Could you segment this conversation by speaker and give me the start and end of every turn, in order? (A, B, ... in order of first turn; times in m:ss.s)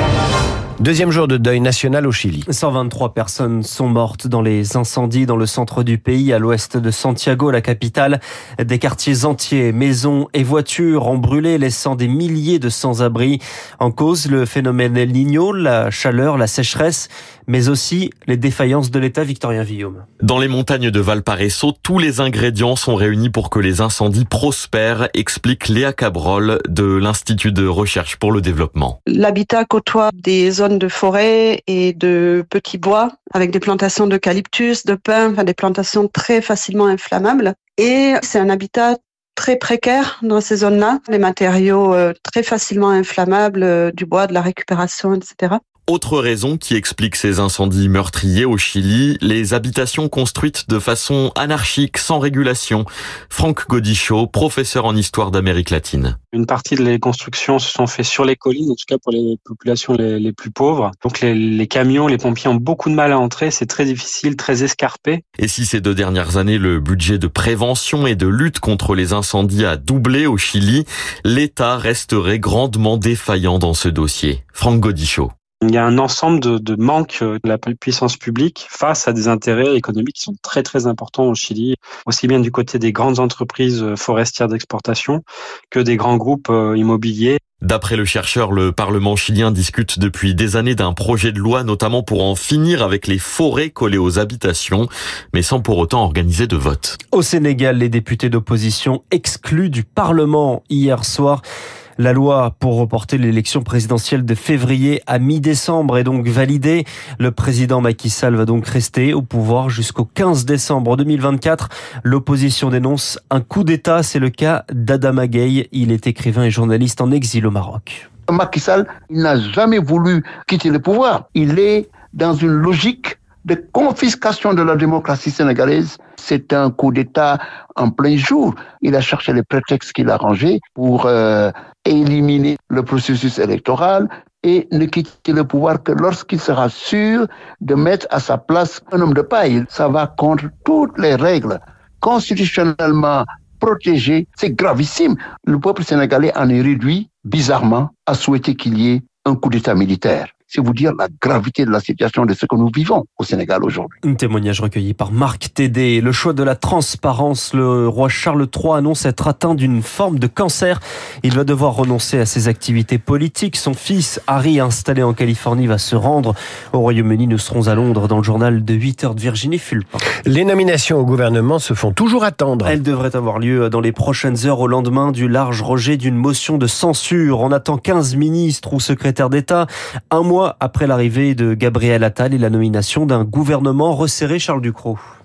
0:00.8-0:02.4 A
0:02.5-0:20.0 B
0:20.2-0:29.0 C
0:29.1-0:45.6 D
0:45.9-0:56.2 C
0:56.3-1:05.2 E
1:05.4-1:15.3 C
1:15.6-1:27.4 E
1:27.6-1:37.0 C
1:37.1-1:41.4 B
1:42.0-1:58.0 B
1:58.3-2:33.9 F
2:34.0-2:50.0 B
2:50.3-2:52.7 A
2:52.6-3:05.0 B